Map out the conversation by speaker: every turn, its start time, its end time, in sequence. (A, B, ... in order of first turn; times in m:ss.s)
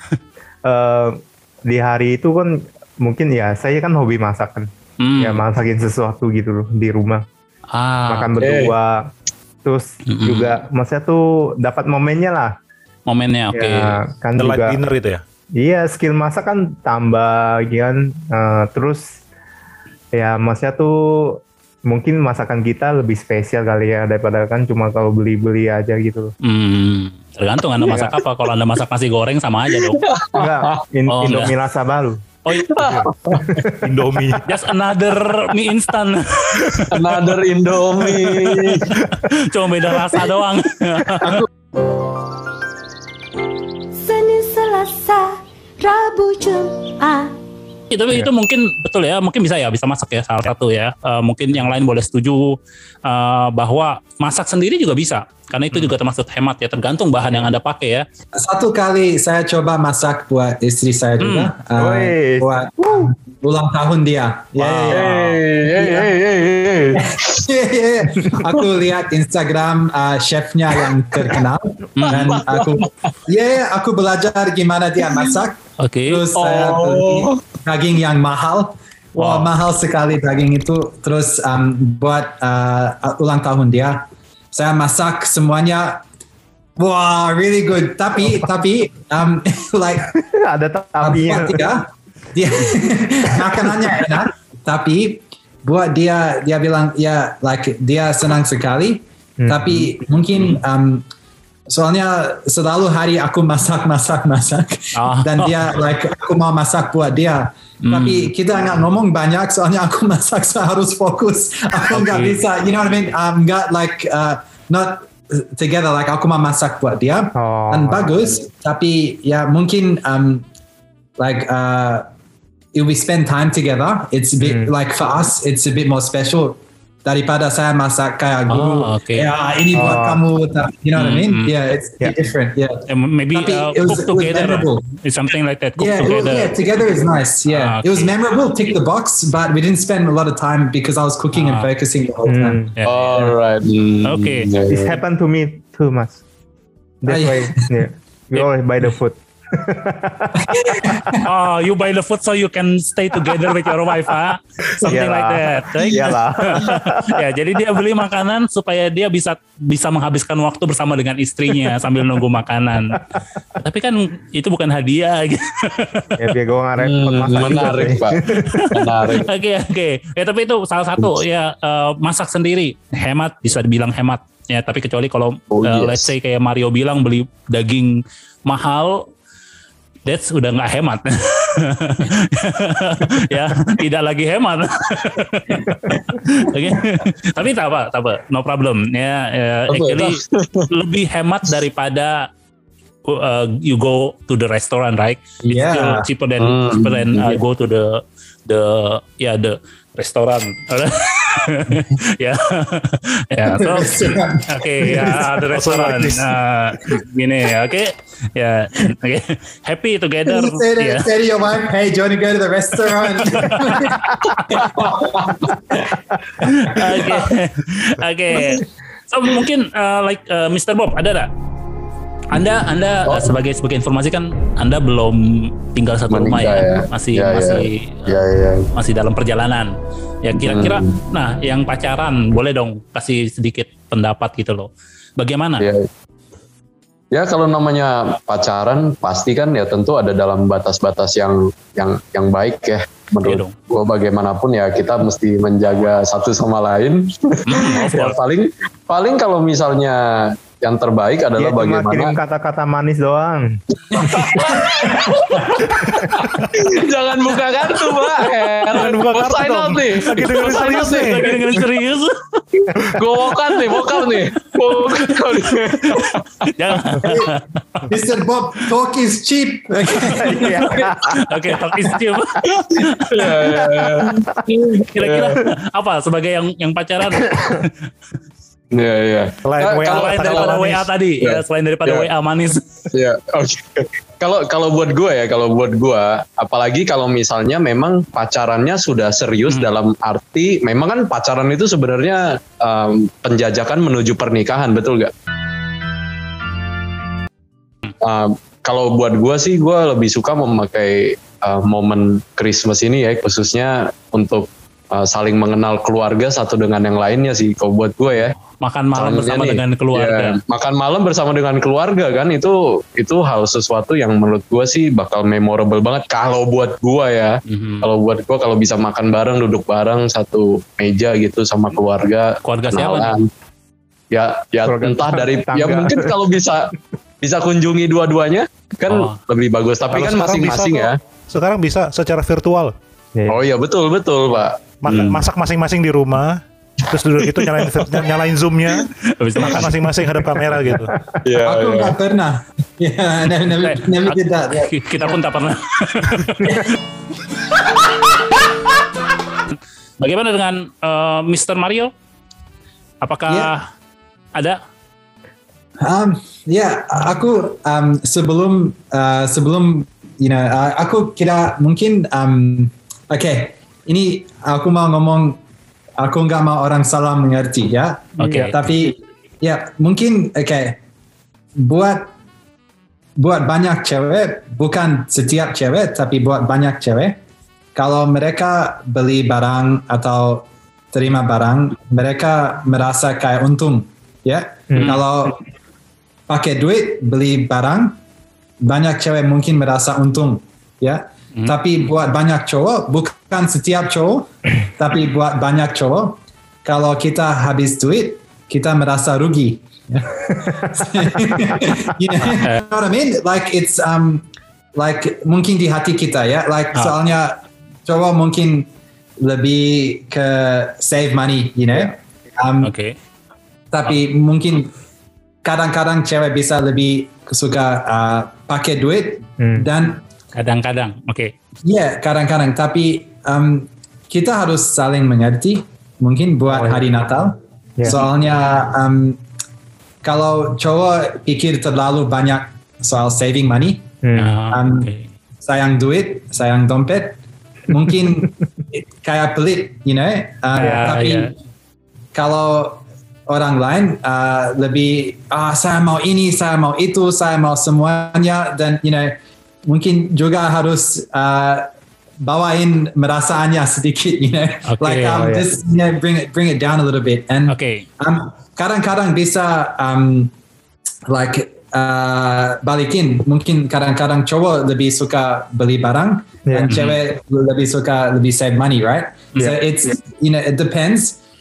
0:00.6-0:07.2 A
0:05.0-0:05.4 B
0:07.7-0:08.3 B
0:08.1-0:09.1 A
0:08.4-0:08.7 C
0:09.6-0:12.5 A
0:10.1-0:10.5 B
0:13.1-0:14.0 B
0:13.5-0:14.8 A
0:14.4-0:15.2 D
0:15.6-0:19.0 A
0:20.1-0:26.3 A
0:26.4-0:30.0 B
0:27.8-0:28.2 A
0:29.7-0:30.8 C
0:30.3-0:32.2 A
0:31.1-0:31.5 B
0:32.5-0:33.0 B
0:32.5-0:33.5 C
0:32.8-0:33.9 A
0:33.8-0:34.5 D
0:34.5-0:37.3 B
0:36.9-0:38.9 C
0:38.2-0:41.4 B
0:41.2-0:41.5 E
0:44.0-0:47.3 F
0:47.9-0:58.0 B
0:58.4-1:06.1 E
1:01.2-1:01.5 B
1:01.8-1:03.1 A
1:04.6-1:05.2 B
1:04.9-1:07.4 C
1:07.1-1:26.0 E
1:12.0-1:12.5 B
1:12.1-1:12.9 C
1:15.8-1:16.2 B
1:16.4-1:17.4 C
1:19.2-1:19.5 B
1:26.8-1:30.1 E
1:30.1-1:31.7 A
1:31.0-1:41.0 E
1:33.4-1:33.7 A
1:39.4-1:39.9 A
1:41.7-2:00.4 E
1:45.0-1:45.6 B
1:47.8-1:48.3 B
1:51.9-1:52.4 B
1:57.4-1:58.1 A
2:01.2-2:02.1 E
2:02.7-2:14.8 E
2:04.4-2:04.7 A
2:08.5-2:09.3 B
2:09.7-2:10.2 A
2:11.0-2:11.5 B
2:12.9-2:16.5 B
2:15.8-2:22.6 E
2:17.5-2:18.1 B
2:21.3-2:21.7 B
2:22.3-2:22.7 A
2:22.8-2:23.3 B
2:22.9-2:25.0 C
2:24.0-2:24.5 B
2:24.7-2:26.2 A
2:27.0-2:30.7 A
2:27.1-2:27.7 E
2:30.4-2:31.3 E
2:31.2-2:43.0 B
2:34.8-2:37.2 A
2:43.6-2:46.1 B
2:46.2-2:48.8 A
2:46.8-2:49.3 C
2:47.4-2:47.9 B
2:48.5-2:58.0 B
2:55.5-2:56.1 C
2:58.5-2:59.0 B
3:00.1-3:10.2 B
3:09.7-3:10.7 C
3:10.7-3:12.3 B
3:13.1-3:31.0 B
3:15.4-3:16.1 E
3:16.4-3:17.4 C
3:23.5-3:25.4 E
3:25.5-3:26.3 D
3:30.3-3:37.2 E
3:33.3-3:33.8 B
3:34.5-3:35.4 C
3:36.4-3:41.3 B
3:42.3-3:48.2 B
3:43.1-3:43.4 C
3:46.1-3:48.7 C
3:48.8-3:55.6 B
3:50.4-3:51.0 C
3:55.6-3:55.9 C
3:57.1-4:12.2 C
4:03.2-4:03.5 B
4:07.5-4:08.2 B
4:11.4-4:13.6 A
4:13.9-4:21.7 C
4:14.0-4:14.5 E
4:18.7-4:21.4 D
4:20.3-4:22.6 B
4:23.0-4:26.8 C
4:26.6-4:27.8 B
4:27.0-4:27.3 E
4:27.9-4:30.9 E
4:30.2-4:31.4 A
4:31.2-4:33.4 B
4:32.4-4:35.4 C
4:33.5-4:34.4 A
4:34.9-4:37.7 B
4:37.2-4:37.5 A
4:38.7-4:40.5 C
4:39.4-4:40.9 D
4:39.9-4:42.6 B
4:41.2-4:42.1 C
4:42.9-4:55.1 C
4:58.0-5:08.4 C
5:08.6-5:10.4 B
5:09.0-5:23.3 C
5:17.5-5:17.9 B
5:22.4-5:23.1 B
5:24.1-5:26.7 C
5:24.6-5:26.2 A
5:27.2-5:31.0 C
5:28.9-5:29.2 B
5:29.9-5:32.8 D
5:33.2-5:33.4 A
5:33.3-5:35.2 C
5:34.8-5:38.9 D
5:39.1-5:39.8 B
5:39.4-5:41.0 D
5:41.2-5:42.0 C
5:41.4-5:44.7 E
5:43.6-5:46.7 B
5:49.5-5:51.9 B
5:53.0-5:53.6 B
5:55.8-6:05.4 E
6:06.0-6:10.8 E
6:08.2-6:08.5 B
6:11.6-6:12.1 E
6:13.2-6:17.2 E
6:17.8-6:25.4 E
6:24.7-6:25.0 A
6:24.8-6:25.0 B
6:26.3-6:28.0 E
6:28.6-6:48.7 E
6:41.1-6:41.7 A
6:49.2-6:52.7 E
6:52.6-6:53.0 B
6:53.7-6:54.7 E
6:55.4-7:00.0 E
6:59.4-6:59.7 A
7:00.4-7:01.3 B
7:01.6-7:09.2 E
7:06.5-7:06.9 A
7:07.8-7:08.0 A
7:10.0-7:13.9 E
7:14.0-7:14.4 A
7:14.2-7:15.1 B
7:14.5-7:14.9 E
7:15.4-7:21.3 E
7:20.6-7:21.3 B
7:20.6-7:21.0 A
7:22.1-7:31.7 E
7:32.2-7:40.3 E
7:34.7-7:35.3 B
7:35.1-7:35.5 A
7:37.5-7:37.8 B
7:41.1-7:51.2 E
7:46.5-7:46.7 A
7:46.7-7:47.0 B